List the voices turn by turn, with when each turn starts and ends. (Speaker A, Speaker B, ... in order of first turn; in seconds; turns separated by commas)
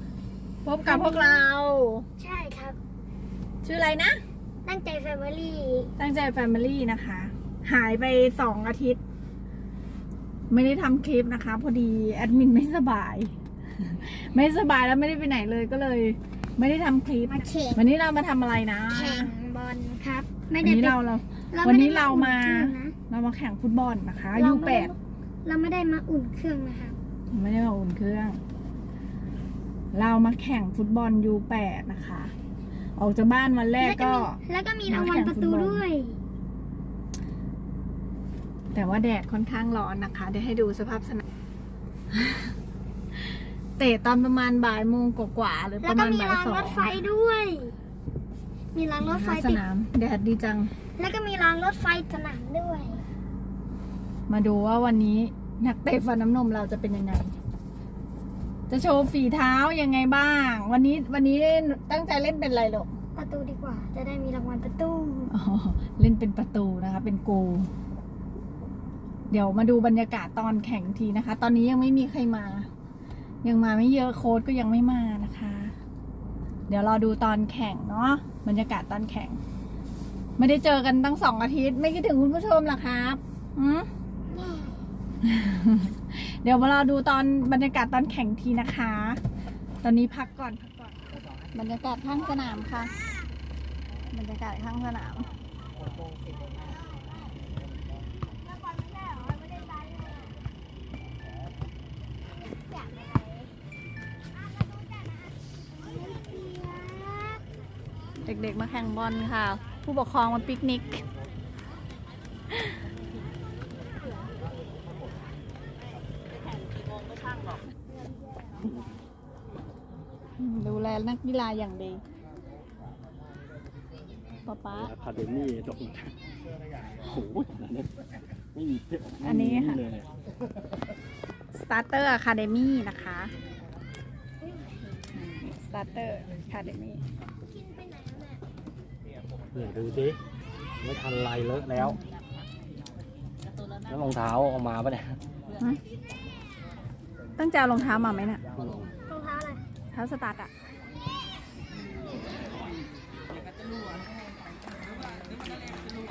Speaker A: 0.6-2.1, Speaker B: 0.8-1.5, Speaker B: 2.2-2.8, Speaker A: 3.6-4.2, Speaker B: 4.7-5.9, Speaker A: 6.0-9.0, Speaker A: 10.5-19.3, Speaker B: 17.3-17.8, Speaker B: 18.9-21.0, Speaker A: 20.6-24.9, Speaker B: 21.5-22.9, Speaker B: 24.3-27.0, Speaker A: 27.3-28.4, Speaker A: 29.9-32.3, Speaker A: 33.0-35.8, Speaker B: 33.8-36.2, Speaker A: 38.7-41.2, Speaker A: 42.1-42.5, Speaker A: 43.8-47.0, Speaker B: 45.8-47.8, Speaker B: 48.7-49.6, Speaker A: 49.0-50.7, Speaker B: 51.0-53.0, Speaker A: 54.3-57.4, Speaker A: 58.7-62.9, Speaker B: 63.2-65.3, Speaker A: 65.3-67.7, Speaker A: 69.3-72.7, Speaker A: 73.4-75.8, Speaker A: 76.7-79.4, Speaker A: 80.4-83.9, Speaker B: 84.3-84.8, Speaker A: 85.2-89.2, Speaker A: 89.8-92.9, Speaker A: 94.1-95.3, Speaker B: 99.1-100.2, Speaker B: 102.5-103.4, Speaker B: 105.8-107.4, Speaker A: 108.2-111.1, Speaker A: 120.4-122.0, Speaker A: 124.5-124.9, Speaker C: 124.8-126.1, Speaker C: 127.0-127.9, Speaker C: 128.5-130.1, Speaker A: 129.2-129.8, Speaker A: 131.5-133.3, Speaker B: 134.4-134.7, Speaker A: 135.2-137.0, Speaker B: 137.5-138.4, Speaker C: 139.5-140.2, Speaker C: 140.8-142.0, Speaker C: 143.9-145.2, Speaker A: 147.4-148.4, Speaker C: 148.6-148.9, Speaker B: 149.1-149.6, Speaker A: 149.9-150.5